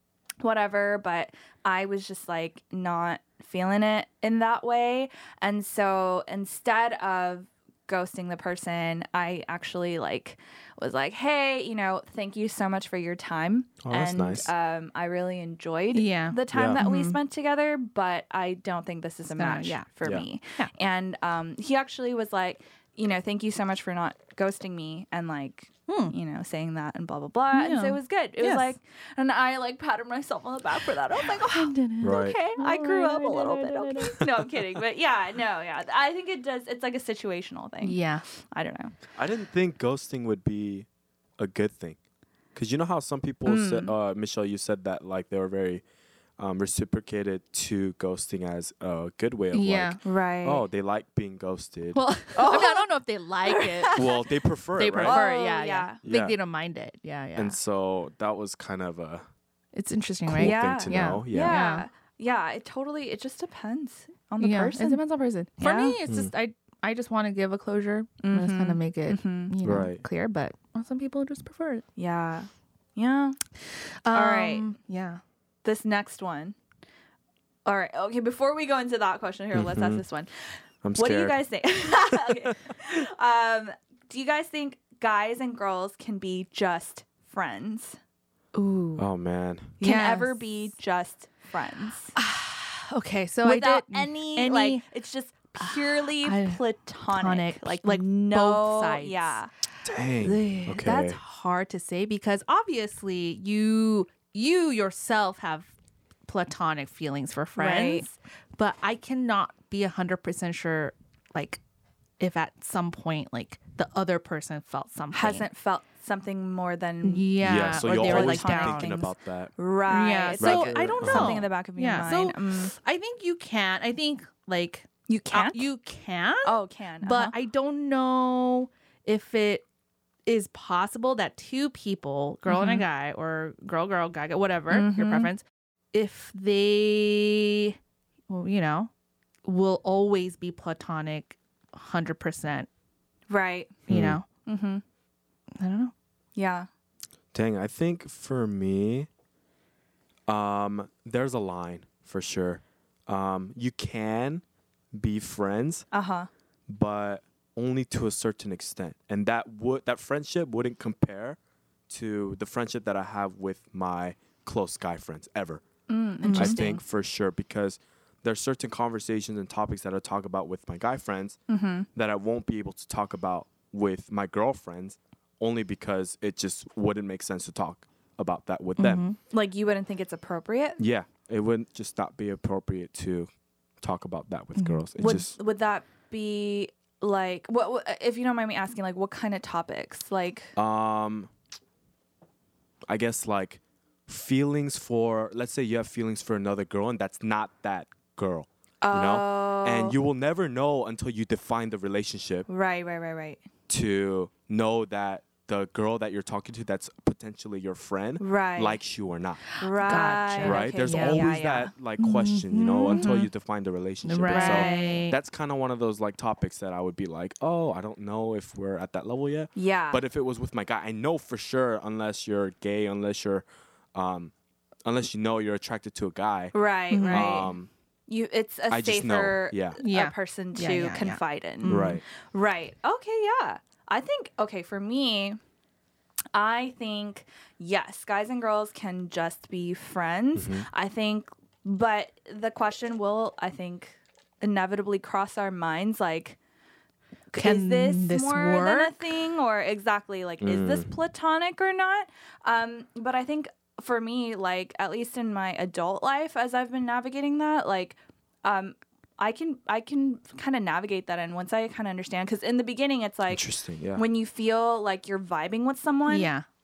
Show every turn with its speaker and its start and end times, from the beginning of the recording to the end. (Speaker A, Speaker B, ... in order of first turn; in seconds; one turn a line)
Speaker A: 0.4-39.0
Speaker B: 13.8-14.5
Speaker C: 15.9-17.2
Speaker B: 16.5-16.8
Speaker C: 19.3-19.9
Speaker C: 25.9-26.1
Speaker C: 27.5-28.7
Speaker C: 31.4-34.2
Speaker B: 32.0-32.4
Speaker C: 37.8-38.2
Speaker B: 39.1-40.9
Speaker B: 41.4-42.0
Speaker B: 42.5-45.8
Speaker A: 43.4-43.9
Speaker B: 46.4-52.1
Speaker C: 49.5-50.0
Speaker A: 50.0-50.6
Speaker C: 51.9-54.0
Speaker A: 52.4-52.9
Speaker A: 53.4-54.2
Speaker B: 53.9-55.2
Speaker C: 54.8-57.6
Speaker A: 55.0-56.0
Speaker B: 56.0-56.4
Speaker B: 57.4-59.2
Speaker C: 59.7-61.9
Speaker B: 60.3-61.6
Speaker A: 60.4-65.0
Speaker C: 64.4-71.8
Speaker A: 65.6-66.0
Speaker A: 68.2-69.5
Speaker B: 69.6-70.0
Speaker A: 72.0-73.4
Speaker C: 74.0-75.2
Speaker A: 74.1-74.7
Speaker A: 75.6-76.6
Speaker A: 77.6-88.0
Speaker B: 79.5-80.0
Speaker B: 80.8-82.5
Speaker C: 88.5-89.1
Speaker B: 89.0-89.8
Speaker A: 89.8-92.2
Speaker C: 89.8-90.4
Speaker C: 92.1-94.8
Speaker A: 93.4-99.5
Speaker C: 95.6-99.4
Speaker B: 99.8-101.2
Speaker C: 100.2-105.7
Speaker C: 106.3-111.6
Speaker A: 107.5-108.1
Speaker C: 112.2-115.5
Speaker A: 115.1-122.7
Speaker C: 117.0-119.1
Speaker B: 117.4-119.6
Speaker C: 119.9-129.6
Speaker B: 120.4-121.4
Speaker A: 125.1-125.7
Speaker A: 126.4-127.3
Speaker C: 130.2-137.8
Speaker A: 132.5-132.8
Speaker A: 134.7-135.3
Speaker C: 138.3-138.9
Speaker C: 139.4-142.7
Speaker A: 143.3-143.8
Speaker C: 143.9-144.2
Speaker B: 143.9-144.2
Speaker A: 144.4-144.8
Speaker C: 145.6-145.9
Speaker A: 146.3-146.7
Speaker B: 147.3-149.1
Speaker B: 150.3-155.9
Speaker A: 155.9-156.3
Speaker B: 156.7-161.4
Speaker B: 161.9-165.6
Speaker A: 165.9-166.8
Speaker C: 166.2-166.7
Speaker B: 166.3-171.4
Speaker A: 171.5-171.9
Speaker B: 171.9-179.1
Speaker C: 178.8-179.2
Speaker A: 179.3-180.8
Speaker B: 180.8-183.3
Speaker B: 183.8-185.3
Speaker C: 184.6-184.8
Speaker A: 185.0-190.5
Speaker B: 190.6-191.3
Speaker B: 192.9-202.5
Speaker A: 198.8-199.9
Speaker A: 202.5-203.4
Speaker B: 203.7-209.5
Speaker A: 208.2-208.8
Speaker C: 209.5-211.3
Speaker A: 209.6-211.7
Speaker B: 210.4-224.3
Speaker C: 212.0-213.1
Speaker A: 212.9-213.3
Speaker C: 214.0-215.2
Speaker A: 214.3-215.0
Speaker A: 219.6-220.0
Speaker B: 224.8-227.7
Speaker A: 226.5-227.5
Speaker C: 226.9-227.5
Speaker A: 228.1-235.4
Speaker B: 228.7-229.8
Speaker C: 229.8-232.0
Speaker B: 231.7-232.0
Speaker A: 236.3-246.4
Speaker B: 240.3-240.6
Speaker A: 247.3-266.3
Speaker C: 247.4-249.2
Speaker B: 250.4-250.9
Speaker B: 263.3-264.0
Speaker C: 266.1-266.4